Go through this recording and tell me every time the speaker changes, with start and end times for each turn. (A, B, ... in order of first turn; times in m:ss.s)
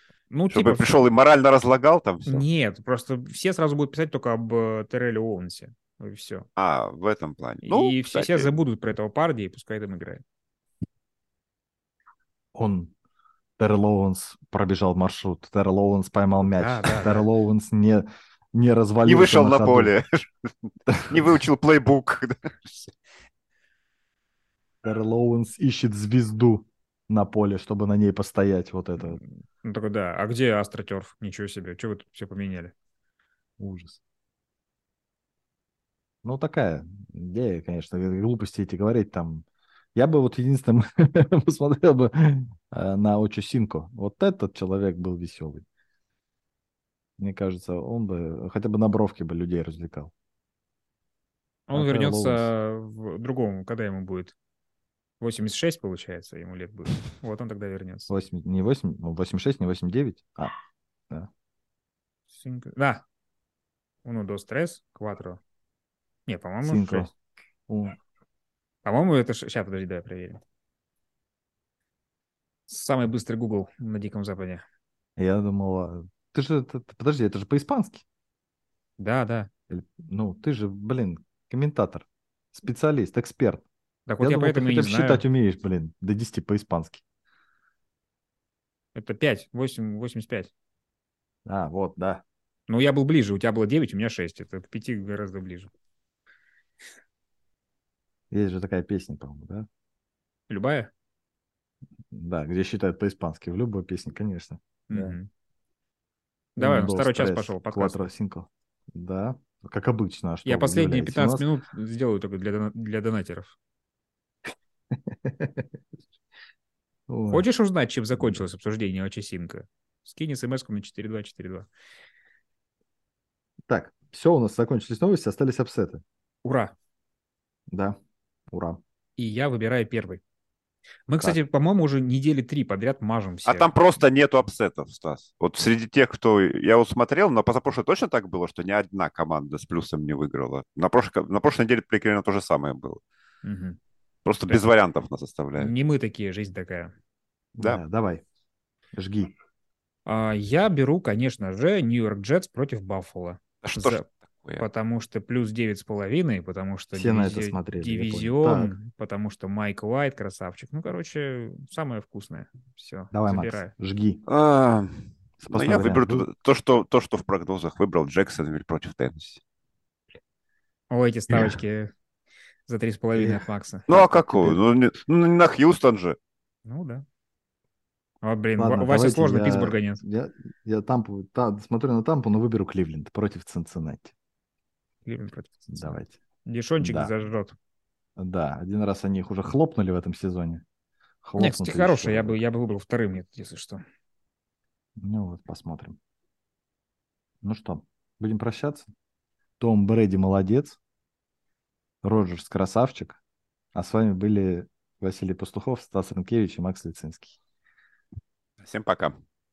0:00.3-0:01.0 A
0:00.5-0:02.4 B
0:02.2-0:06.4 A
0:06.6-0:08.5 B
0:07.6-0:10.2 A
0:12.5-0:12.9 C
0:13.6-0:19.9 C
0:16.4-0:17.3 A
0:19.0-0:22.9 B
0:20.9-0:21.4 C
0:24.8-0:29.2 C
0:29.0-0:32.7 A
0:33.6-0:34.0 C
0:36.2-0:45.6 C
0:47.2-0:50.1 C
0:51.7-0:54.3 A
0:51.7-0:52.5 C
0:55.2-0:58.1 A
0:58.1-1:00.5 C
1:02.3-1:03.0 A
1:04.0-1:05.4 A
1:06.3-1:07.1 A
1:06.6-1:07.1 C
1:07.7-1:08.0 C
1:08.8-1:10.4 A
1:12.7-1:14.6 A
1:15.2-1:18.0 C
1:19.0-1:19.5 A
1:19.7-1:23.6 C
1:24.1-1:25.2 A
1:24.2-1:27.0 C
1:28.9-1:30.5 A
1:31.4-1:32.2 C
1:32.7-1:35.7 A
1:38.3-1:39.7 C
1:40.5-1:40.9 A
1:42.1-1:45.2 C
1:44.9-1:45.3 A
1:46.6-1:48.0 A
1:46.6-1:51.5 C
1:50.4-1:53.5 A
1:54.9-1:55.7 C
1:57.1-1:57.4 C
1:57.3-2:01.7 A
2:03.7-2:06.0 C
2:06.4-2:06.7 A
2:07.7-2:08.0 C
2:08.5-2:08.8 C
2:09.2-2:10.2 A
2:11.1-2:13.7 A
2:13.4-2:23.0 B
2:23.4-2:23.8 A
2:24.2-2:25.7 B
2:25.6-2:26.9 A
2:27.5-2:28.2 C
2:28.9-2:29.3 C
2:30.0-2:34.0 A
2:33.6-2:34.6 B
2:34.6-2:43.7 A
2:36.9-2:38.7 C
2:43.1-2:44.2 C
2:44.2-2:49.4 B
2:45.4-2:46.3 C
2:50.9-2:51.9 A
2:51.3-2:51.6 C
2:52.7-2:53.9 A
2:53.2-2:53.4 C
2:53.9-2:56.2 B
2:53.9-2:54.6 C
2:56.6-2:57.0 A
2:58.2-3:00.0 A
2:58.6-3:04.1 C
3:05.0-3:07.5 A
3:05.7-3:06.2 C
3:06.8-3:07.1 C
3:08.2-3:10.6 C
3:11.2-3:12.4 C
3:11.4-3:13.8 A
3:15.0-3:16.0 C
3:17.4-3:18.9 C
3:19.6-3:20.8 C
3:22.0-3:23.2 C
3:23.7-3:27.4 C
3:28.6-3:29.2 B